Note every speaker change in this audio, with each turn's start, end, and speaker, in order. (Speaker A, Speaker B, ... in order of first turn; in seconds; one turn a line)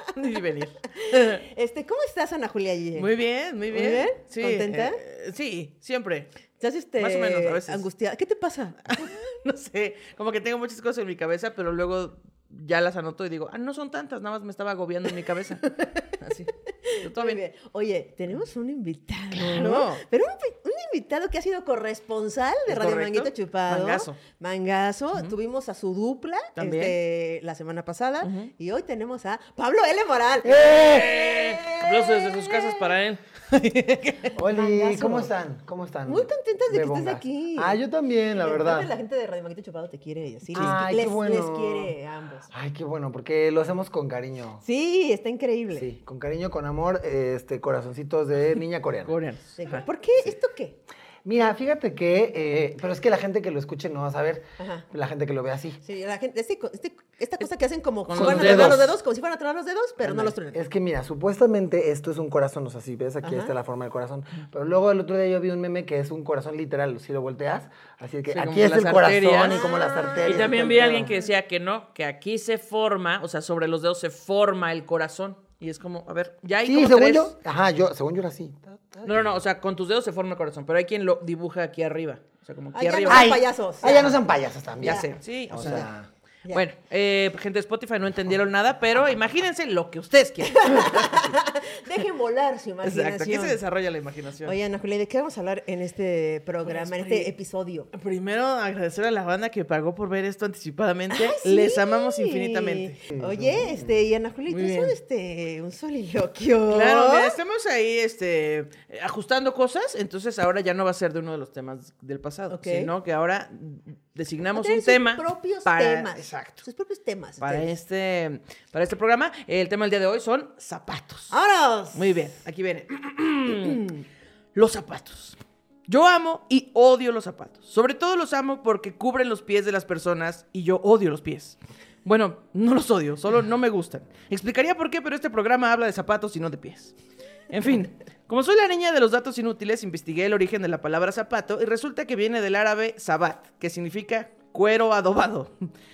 Speaker A: 0.1-1.4
Speaker B: 0.9-3.1
Speaker A: 3.0-6.3
Speaker B: 3.7-5.0
Speaker B: 6.6-8.8
Speaker A: 7.0-7.8
Speaker A: 8.9-15.7
Speaker B: 15.6-16.1
Speaker A: 16.2-16.5
Speaker B: 16.8-32.8
Speaker A: 17.0-17.4
Speaker A: 19.3-20.0
Speaker A: 22.7-24.2
Speaker A: 26.6-26.9
Speaker A: 28.2-28.5
Speaker C: 30.4-31.2
Speaker A: 30.7-34.3
Speaker B: 34.4-35.3
Speaker C: 34.4-38.9
Speaker B: 36.1-37.8
Speaker B: 38.4-42.5
Speaker C: 40.5-41.9
Speaker C: 42.5-44.6
Speaker B: 44.6-45.9
Speaker C: 45.7-49.1
Speaker A: 49.0-49.8
Speaker B: 49.6-50.8
Speaker C: 51.2-55.8
Speaker B: 54.6-54.8
Speaker B: 55.8-60.6
Speaker A: 58.0-58.9
Speaker C: 58.1-58.9
Speaker C: 60.0-71.1
Speaker B: 63.2-63.5
Speaker A: 68.3-69.6
Speaker B: 69.5-70.9
Speaker A: 70.2-77.3
Speaker C: 76.6-79.3
Speaker A: 79.0-83.3
Speaker B: 82.7-84.2
Speaker C: 83.1-86.1
Speaker B: 84.8-85.8
Speaker A: 84.8-85.9
Speaker A: 86.5-91.4
Speaker B: 90.5-93.6
Speaker A: 92.8-94.5
Speaker B: 94.4-97.9
Speaker A: 96.7-97.3
Speaker A: 97.9-103.0
Speaker B: 101.1-107.4
Speaker C: 103.1-104.0
Speaker A: 104.5-104.9
Speaker A: 106.7-116.6
Speaker B: 112.5-112.9
Speaker B: 114.5-117.7
Speaker A: 117.4-121.3
Speaker B: 121.3-122.2
Speaker A: 121.9-123.9
Speaker B: 123.6-124.0
Speaker A: 124.5-136.9
Speaker A: 137.5-145.5